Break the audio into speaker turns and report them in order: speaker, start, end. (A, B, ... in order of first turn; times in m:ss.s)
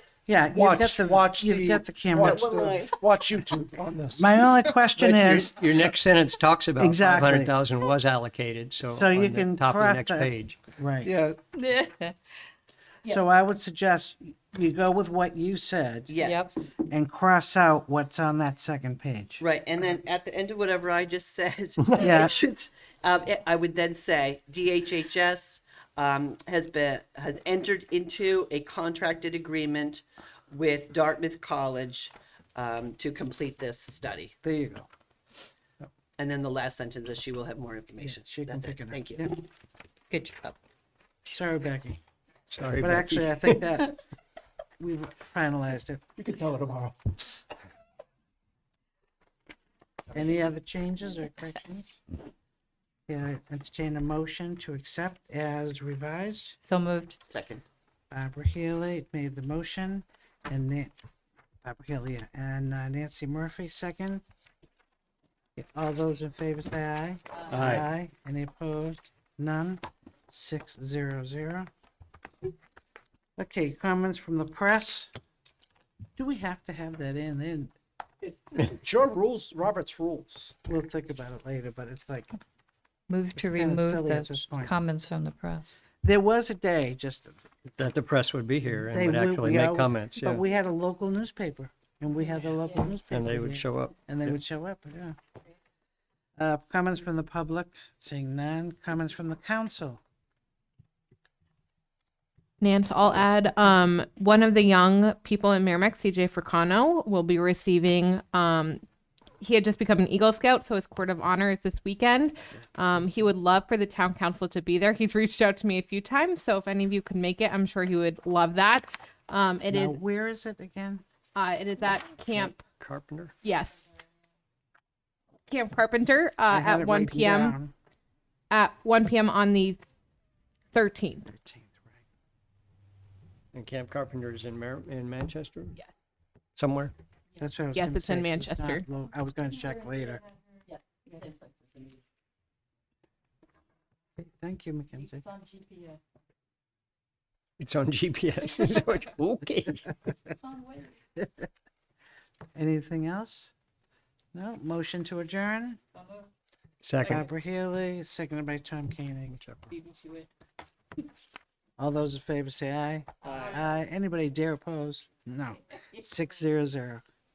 0:00.3-0:02.4 A
0:00.5-0:04.4 B
0:02.2-0:02.9 C
0:04.2-0:05.6 A
0:05.0-0:10.6 D
0:06.8-0:07.6 A
0:09.0-0:11.1 A
0:11.0-0:11.4 B
0:11.6-0:12.1 E
0:13.0-0:16.1 A
0:16.1-0:16.5 C
0:16.2-0:16.6 E
0:16.9-0:19.4 A
0:19.4-0:34.3 C
0:22.0-0:22.3 A
0:34.4-0:34.9 A
0:36.2-0:39.2 C
0:38.0-0:39.4 A
0:40.1-0:40.5 C
0:41.2-0:42.0 A
0:42.5-0:43.6 D
0:42.8-0:44.0 A
0:44.8-0:46.0 A
0:46.2-0:47.2 B
0:50.1-0:52.0 A
0:53.1-0:56.6 A
0:56.6-0:57.2 E
0:57.3-0:57.6 C
0:58.1-1:01.0 A
1:01.6-1:04.2 A
1:05.6-1:11.7 A
1:07.5-1:07.9 D
1:13.4-1:15.1 A
1:16.2-1:17.7 A
1:18.2-1:20.6 B
1:20.7-1:22.4 A
1:23.1-1:25.8 E
1:23.4-1:24.7 A
1:26.0-1:27.9 A
1:27.8-1:30.4 D
1:28.9-1:35.2 A
1:33.1-1:34.4 D
1:36.4-1:40.0 A
1:42.6-1:48.8 F
1:49.4-2:00.0 F
1:59.7-2:01.0 A
2:01.4-2:02.6 F
2:02.3-2:03.3 D
2:03.4-2:03.8 F
2:05.5-2:07.6 F
2:06.5-2:07.7 A
2:08.5-2:09.8 F
2:10.7-2:11.2 F
2:11.2-2:12.0 A
2:13.5-2:15.8 D
2:16.6-2:16.9 D
2:17.4-2:20.2 A
2:17.7-2:18.8 F
2:24.2-2:25.3 A
2:27.6-2:30.0 D
2:31.2-2:31.4 A
2:32.5-2:33.5 A
2:34.3-2:35.8 A
2:36.8-2:37.2 D
2:37.0-2:39.4 A
2:39.3-2:39.7 D
2:41.8-2:47.0 A